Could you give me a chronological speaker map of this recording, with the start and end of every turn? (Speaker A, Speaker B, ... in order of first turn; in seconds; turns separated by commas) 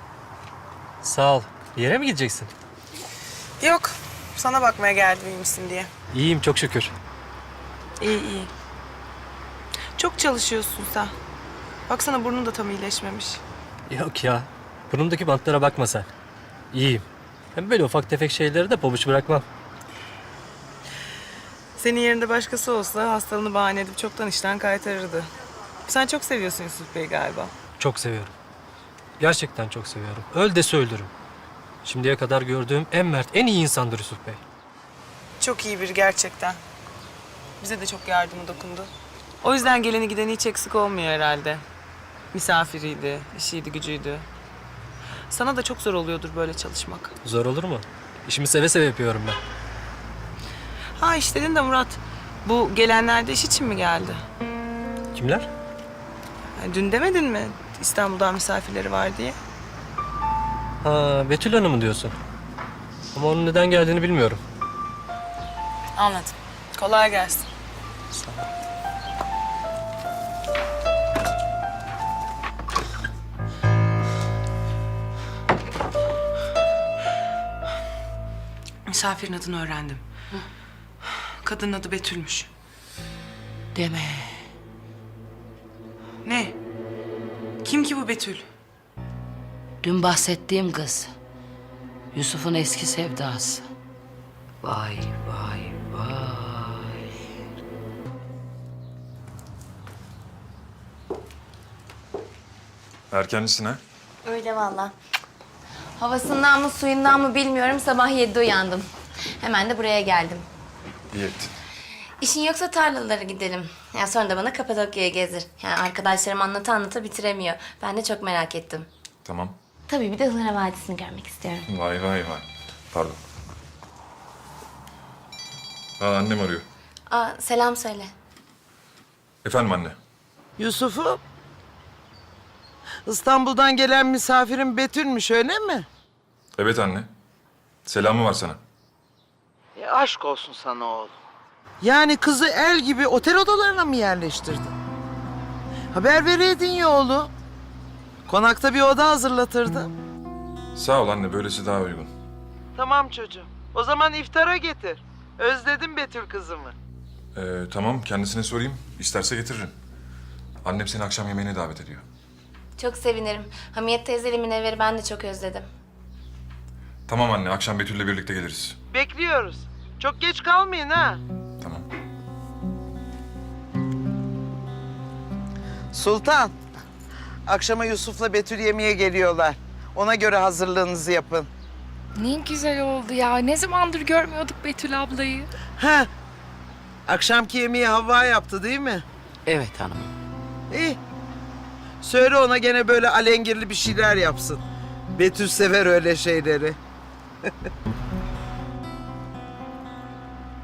Speaker A: 1.0-2.5, Speaker B: 3.6-5.9, Speaker A: 6.1-6.9, Speaker B: 8.0-8.5, Speaker B: 10.0-11.1, Speaker B: 11.9-13.4, Speaker A: 13.9-16.1, Speaker A: 16.7-17.0, Speaker A: 17.6-19.4, Speaker B: 21.8-25.3, Speaker B: 25.9-27.5, Speaker A: 27.8-28.3, Speaker A: 29.2-31.1, Speaker A: 31.8-34.4, Speaker B: 35.4-36.6, Speaker B: 37.6-38.9, Speaker B: 39.4-41.6, Speaker B: 42.3-44.2, Speaker B: 45.3-47.1, Speaker A: 47.2-49.4, Speaker B: 51.0-54.2, Speaker A: 55.1-55.5, Speaker B: 56.6-59.4, Speaker A: 60.8-62.1, Speaker A: 63.1-64.4, Speaker B: 66.0-67.5, Speaker B: 78.9-80.0, Speaker B: 81.0-82.5, Speaker C: 83.8-84.5, Speaker B: 86.2-86.5, Speaker B: 87.6-88.5, Speaker C: 89.8-91.1, Speaker C: 92.1-93.7, Speaker C: 94.6-97.0, Speaker D: 103.1-103.8, Speaker E: 104.2-104.9, Speaker E: 106.0-108.9, Speaker E: 109.4-110.5, Speaker D: 111.1-111.5, Speaker E: 112.2-118.9, Speaker D: 119.2-119.6, Speaker E: 119.9-121.7, Speaker D: 121.7-123.2, Speaker D: 126.0-126.7, Speaker E: 127.1-128.1, Speaker D: 129.4-130.0, Speaker F: 130.6-131.2, Speaker F: 133.1-135.9, Speaker D: 136.6-137.1, Speaker D: 137.9-138.6, Speaker F: 139.8-141.1, Speaker F: 141.8-144.8, Speaker F: 145.9-147.3, Speaker F: 148.3-149.9, Speaker D: 150.8-152.1, Speaker F: 152.8-156.8, Speaker D: 157.3-159.8, Speaker D: 160.6-162.0, Speaker E: 162.8-165.7, Speaker D: 167.1-168.8, Speaker F: 168.9-171.2, Speaker F: 175.9-176.6, Speaker F: 177.5-181.5, Speaker G: 182.2-185.5, Speaker F: 185.8-186.1, Speaker F: 187.1-189.1, Speaker C: 189.5-190.1, Speaker F: 190.7-191.0, Speaker F: 192.0-194.6, Speaker F: 195.1-196.8